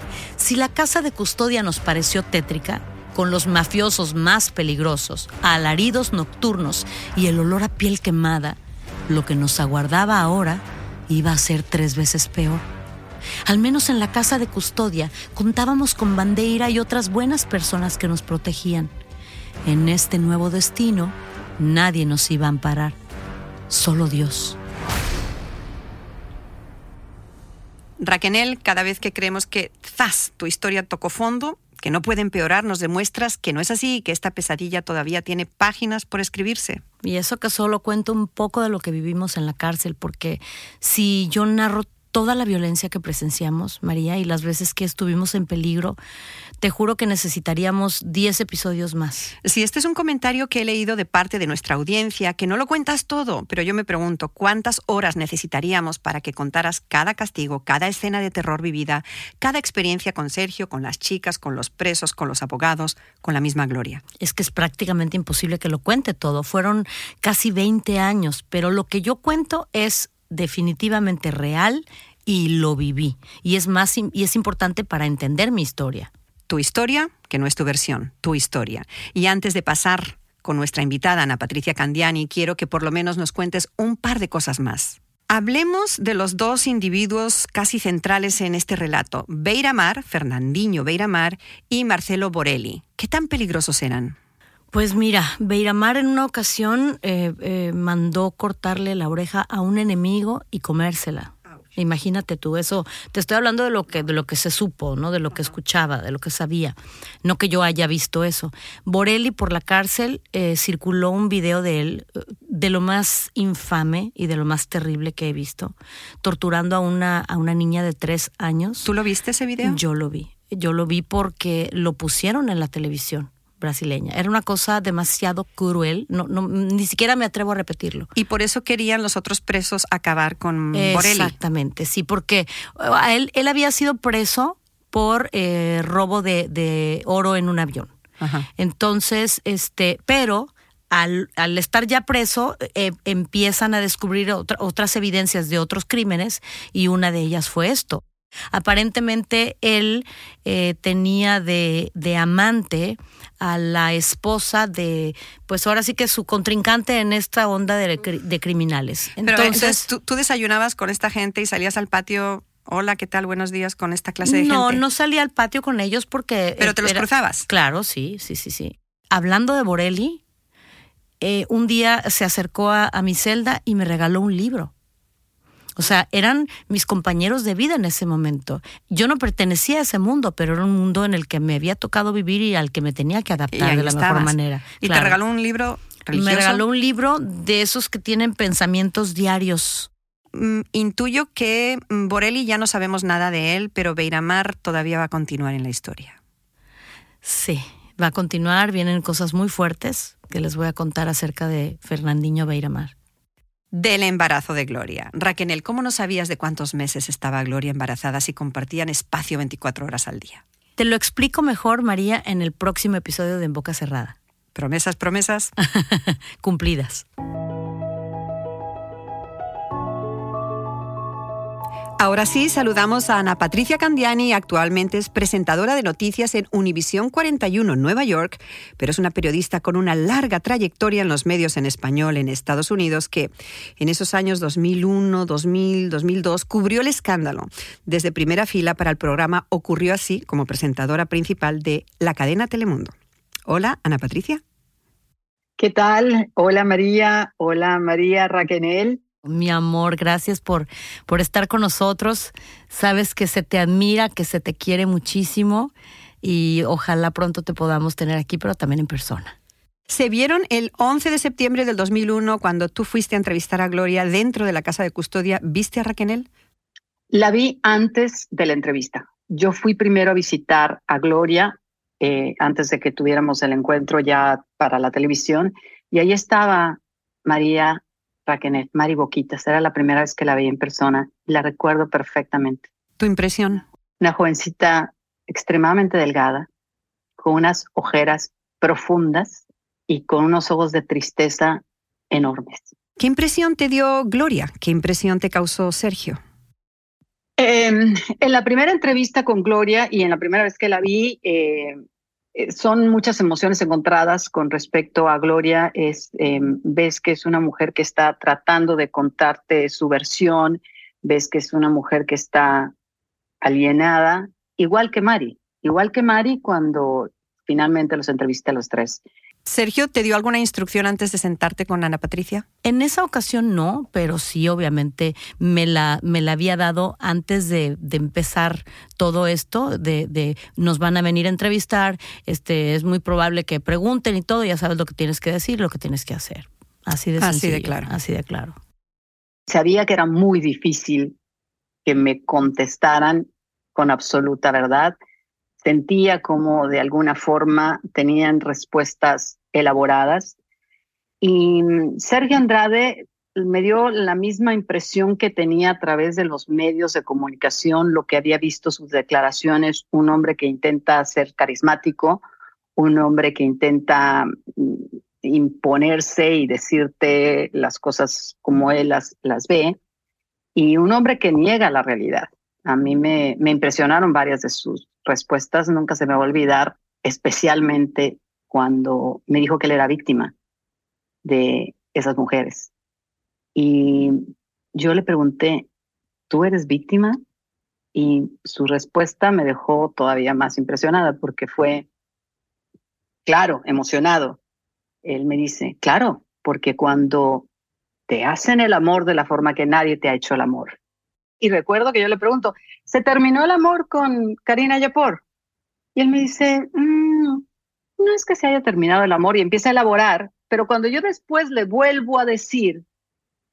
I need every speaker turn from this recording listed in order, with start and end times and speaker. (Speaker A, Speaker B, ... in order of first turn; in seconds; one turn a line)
Speaker A: 0.4-12.7
Speaker A: 13.5-18.9
Speaker A: 19.6-23.0
Speaker A: 23.7-24.6
Speaker B: 28.0-36.8
Speaker A: 37.0-46.0
Speaker A: 46.6-49.3
Speaker B: 49.4-64.0
Speaker A: 64.2-76.1
Speaker B: 76.5-94.2
Speaker A: 94.7-118.9
Speaker B: 118.8-119.8
Speaker A: 119.6-128.1
Speaker B: 128.2-131.3
Speaker A: 130.7-137.9
Speaker B: 138.2-138.5
Speaker A: 138.6-159.9
Speaker B: 159.2-164.8
Speaker A: 164.2-170.2
Speaker B: 166.6-167.5
Speaker A: 171.2-174.7
Speaker A: 175.8-185.2
Speaker B: 183.5-186.6
Speaker A: 186.1-189.9
Speaker B: 190.3-196.2
Speaker A: 197.2-202.9
Speaker B: 203.7-210.4
Speaker A: 210.8-214.2
Speaker B: 214.6-215.5
Speaker A: 215.8-217.1
Speaker B: 222.0-242.9
Speaker B: 243.5-244.4
Speaker C: 245.6-249.0
Speaker A: 249.2-259.4
Speaker B: 259.9-266.3
Speaker C: 267.1-282.7
Speaker B: 283.0-283.6
Speaker C: 284.0-286.5
Speaker C: 287.2-292.7
Speaker B: 293.0-296.2
Speaker C: 297.4-301.8
Speaker C: 302.4-312.7
Speaker C: 313.4-319.0
Speaker B: 319.5-322.4
Speaker A: 322.6-338.6
Speaker B: 337.2-337.9
Speaker C: 339.5-341.2
Speaker C: 341.9-345.0
Speaker C: 345.6-350.4
Speaker C: 351.2-362.2
Speaker C: 362.8-369.8
Speaker C: 370.6-380.3
Speaker C: 381.2-382.7
Speaker C: 383.6-385.7
Speaker C: 386.3-387.2
Speaker C: 387.9-391.9
Speaker C: 393.3-394.4
Speaker C: 395.0-397.5
Speaker C: 398.1-400.8
Speaker C: 401.4-405.2
Speaker C: 405.9-407.4
Speaker C: 408.0-412.8